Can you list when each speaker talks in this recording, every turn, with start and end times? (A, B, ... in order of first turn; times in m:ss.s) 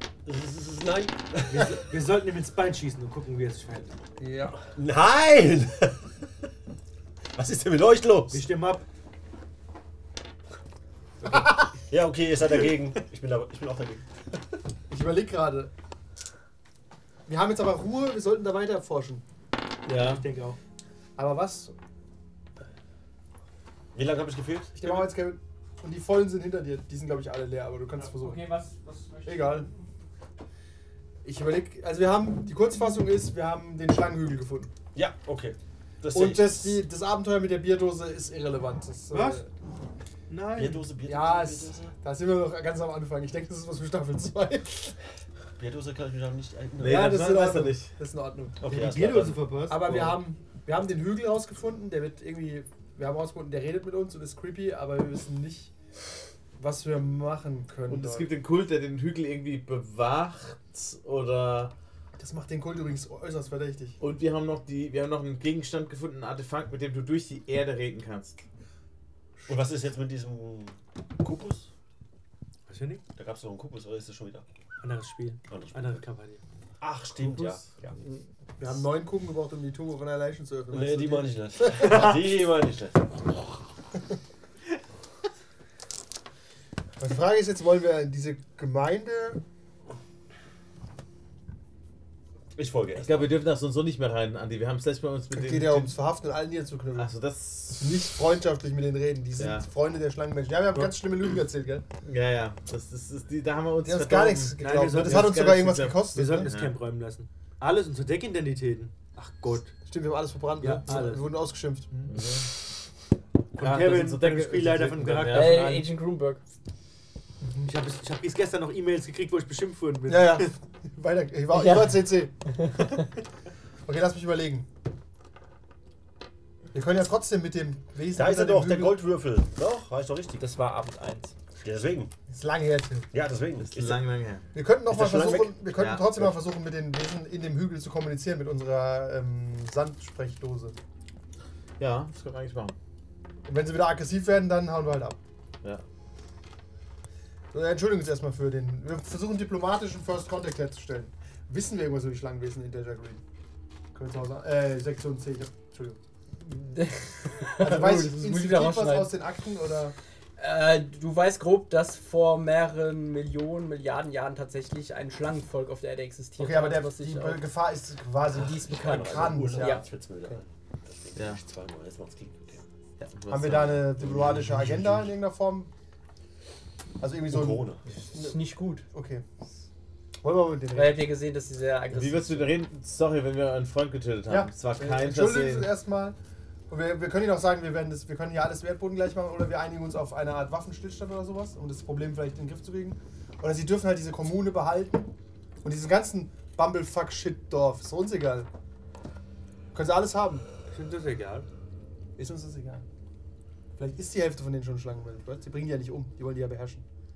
0:00.2-0:01.7 A
0:01.5-0:03.9 B
0:04.2-0:04.6 C
0:04.7-0:06.1 A
0:07.4-0:08.4 A
0:08.3-0:08.8 B
0:11.3-0:14.0 A
0:14.9-0:15.7 C
0:17.3-0:19.2 C
0:19.8-0:20.2 D
0:19.9-0:20.6 B
0:21.2-0:21.7 C
0:23.9-0:25.0 A
0:24.8-0:28.4 C
0:28.0-0:29.7 E
0:29.2-0:29.7 C
0:31.2-0:34.7 C
0:34.9-0:36.8 A
0:36.1-0:39.5 C
0:39.1-0:39.4 B
0:40.3-0:40.9 B
0:40.5-0:41.9 A
0:41.0-0:45.0 C
0:45.6-0:47.2 A
0:46.8-0:47.9 D
0:46.8-0:48.7 C
0:48.6-0:49.5 A
0:48.6-0:50.2 B
0:49.7-0:55.7 C
0:56.6-0:58.3 C
0:57.9-1:01.7 D
1:02.2-1:04.0 C
1:04.0-1:08.4 D
1:09.5-1:11.7 A
1:12.7-1:13.0 B
1:13.2-1:14.4 A
1:14.8-1:16.4 B
1:15.5-1:16.0 A
1:16.8-1:17.8 A
1:18.6-1:22.2 C
1:20.7-1:23.2 A
1:27.0-1:29.4 C
1:32.6-1:33.3 A
1:33.0-1:36.0 D
1:35.3-1:37.1 C
1:36.9-1:38.0 D
1:37.8-1:41.8 C
1:39.4-1:39.6 D
1:42.0-1:46.7 D
1:43.8-1:46.5 C
1:44.6-1:45.5 B
1:46.1-1:49.7 B
1:49.8-1:51.9 C
1:50.6-1:51.3 B
1:52.1-1:52.5 D
1:53.6-1:55.7 B
1:53.6-1:55.9 D
1:55.3-1:56.4 E
1:57.6-2:00.5 B
2:00.1-2:02.3 C
2:01.5-2:02.9 E
2:03.8-2:04.7 C
2:06.7-2:09.0 C
2:08.1-2:10.5 A
2:10.4-2:11.3 E
2:11.6-2:12.1 A
2:12.3-2:13.1 C
2:13.1-2:14.1 A
2:13.7-2:14.4 D
2:14.5-2:20.8 C
2:14.9-2:16.4 A
2:15.8-2:16.0 D
2:21.8-2:22.8 D
2:23.4-2:25.2 C
2:27.5-2:33.2 C
2:33.9-2:36.0 C
2:36.4-2:39.1 E
2:37.6-2:39.9 C
2:40.4-2:47.4 E
2:46.4-2:50.4 C
2:48.3-2:49.8 E
2:48.7-2:52.6 A
2:53.0-2:53.9 D
2:53.3-2:55.7 C
2:54.0-2:55.1 A
2:57.0-2:59.2 C
2:57.3-2:57.9 A
2:57.9-2:58.8 E
3:00.2-3:01.1 C
3:00.7-3:02.6 E
3:01.9-3:05.7 D
3:04.3-3:06.2 C
3:06.7-3:18.5 C
3:19.7-3:20.4 C
3:20.7-3:21.5 B
3:22.2-3:22.8 C
3:23.8-3:26.8 C